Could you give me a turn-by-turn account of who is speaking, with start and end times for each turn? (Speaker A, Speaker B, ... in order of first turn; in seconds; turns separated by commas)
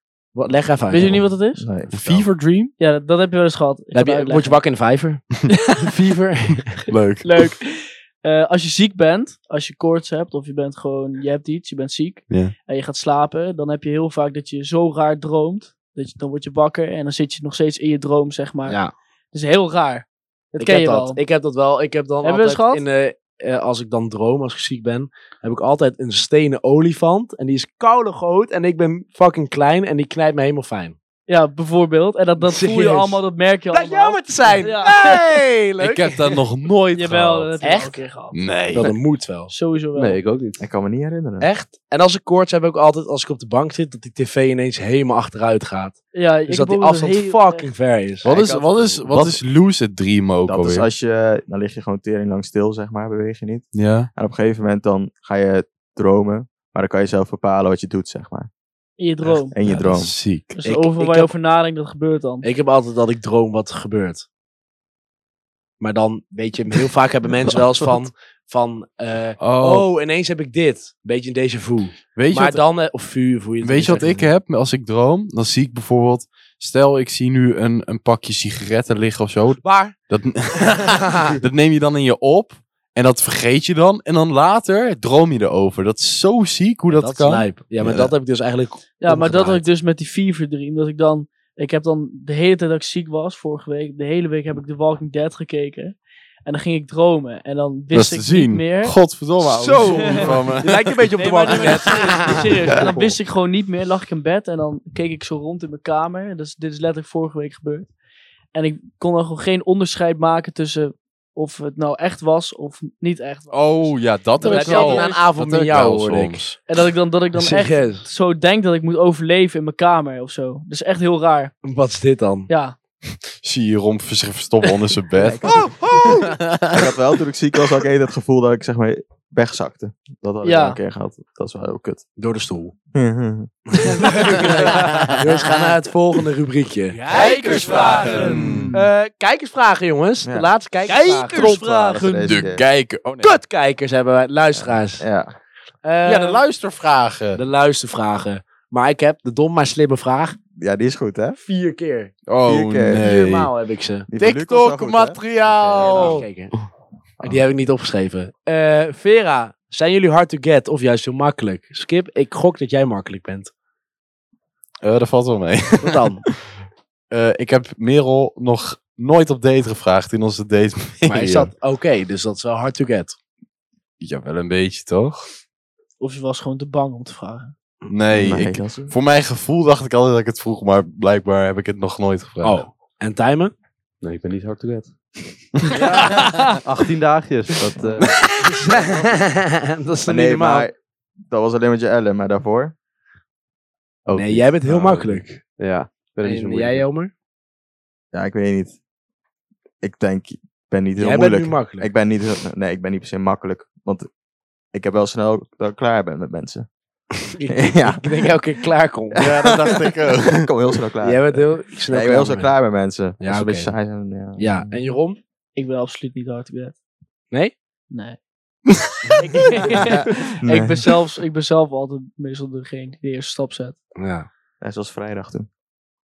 Speaker A: 0.3-1.2, Speaker B: 0.9-1.7, Speaker C: 1.0-2.3, Speaker D: 1.9-2.7, Speaker B: 2.8-4.6, Speaker A: 3.9-6.9, Speaker B: 5.5-5.9, Speaker D: 6.9-7.5, Speaker B: 7.2-21.2, Speaker D: 12.3-12.5, Speaker A: 18.7-18.9, Speaker A: 20.6-30.9, Speaker B: 22.2-22.9, Speaker B: 31.3-35.3, Speaker A: 32.4-36.4, Speaker D: 35.8-37.6, Speaker B: 36.9-38.4, Speaker A: 37.6-38.0, Speaker D: 38.3-39.0, Speaker A: 38.7-39.5, Speaker B: 39.5-40.2, Speaker E: 39.9-40.6, Speaker C: 40.6-41.5, Speaker A: 41.4-48.2, Speaker B: 46.1-47.7, Speaker D: 48.2-50.9, Speaker C: 48.2-49.4, Speaker C: 50.5-58.5, Speaker D: 53.7-54.1, Speaker B: 59.0-59.6, Speaker C: 59.5-60.1, Speaker D: 59.6-60.6, Speaker B: 60.5-62.5, Speaker A: 60.6-61.3, Speaker A: 62.4-64.2, Speaker A: 65.8-74.3, Speaker D: 69.4-69.9, Speaker D: 72.1-72.6, Speaker D: 73.6-88.1, Speaker A: 79.6-79.9, Speaker A: 80.9-81.3, Speaker A: 86.9-89.7, Speaker B: 89.0-99.0, Speaker D: 97.9-101.7, Speaker A: 99.4-102.8, Speaker B: 99.8-100.4, Speaker B: 101.2-107.9, Speaker B: 108.5-115.2, Speaker D: 113.5-116.6, Speaker A: 114.4-116.5, Speaker B: 116.7-121.5, Speaker A: 117.3-118.0, Speaker A: 121.6-122.5, Speaker B: 122.5-122.7, Speaker D: 123.4-126.9, Speaker A: 125.1-126.2, Speaker C: 126.7-132.0, Speaker B: 130.4-130.8, Speaker A: 132.2-132.7, Speaker C: 132.9-133.6, Speaker A: 133.7-142.0, Speaker D: 134.7-135.1, Speaker B: 137.1-138.8, Speaker D: 137.1-138.7, Speaker C: 140.2-140.5, Speaker B: 140.8-142.4, Speaker C: 141.3-142.6, Speaker D: 142.2-143.4, Speaker A: 143.2-145.0, Speaker C: 144.6-145.3, Speaker A: 145.8-146.4, Speaker D: 146.0-147.4, Speaker A: 147.3-150.4, Speaker C: 150.6-151.4, Speaker A: 151.5-152.1, Speaker D: 152.3-153.5, Speaker C: 152.4-153.1, Speaker A: 153.0-154.1, Speaker C: 154.1-156.2, Speaker D: 154.2-156.3, Speaker A: 155.5-156.5, Speaker C: 157.2-157.4, Speaker A: 157.2-163.5, Speaker D: 164.8-166.3, Speaker A: 165.8-166.2, Speaker D: 167.1-171.5, Speaker A: 171.1-173.2, Speaker D: 174.0-175.2, Speaker B: 176.0-177.5, Speaker D: 177.9-182.6, Speaker C: 178.1-178.9, Speaker A: 182.4-183.5, Speaker E: 184.0-184.9, Speaker E: 185.7-189.1, Speaker B: 186.1-186.6, Speaker A: 188.4-190.7, Speaker C: 190.0-190.7, Speaker C: 191.3-192.7, Speaker E: 194.1-196.8, Speaker A: 194.1-195.4, Speaker A: 196.2-197.1, Speaker C: 198.1-198.8, Speaker C: 199.8-204.1, Speaker A: 201.0-201.9, Speaker C: 204.7-206.7, Speaker A: 207.3-209.2, Speaker C: 207.5-208.3, Speaker C: 209.1-214.8, Speaker D: 209.2-210.5, Speaker A: 211.0-212.5, Speaker A: 213.2-213.7, Speaker A: 214.4-215.2, Speaker B: 215.6-216.8, Speaker B: 217.9-218.2, Speaker B: 219.1-223.8, Speaker C: 219.8-220.9, Speaker A: 224.0-224.3, Speaker C: 224.6-225.5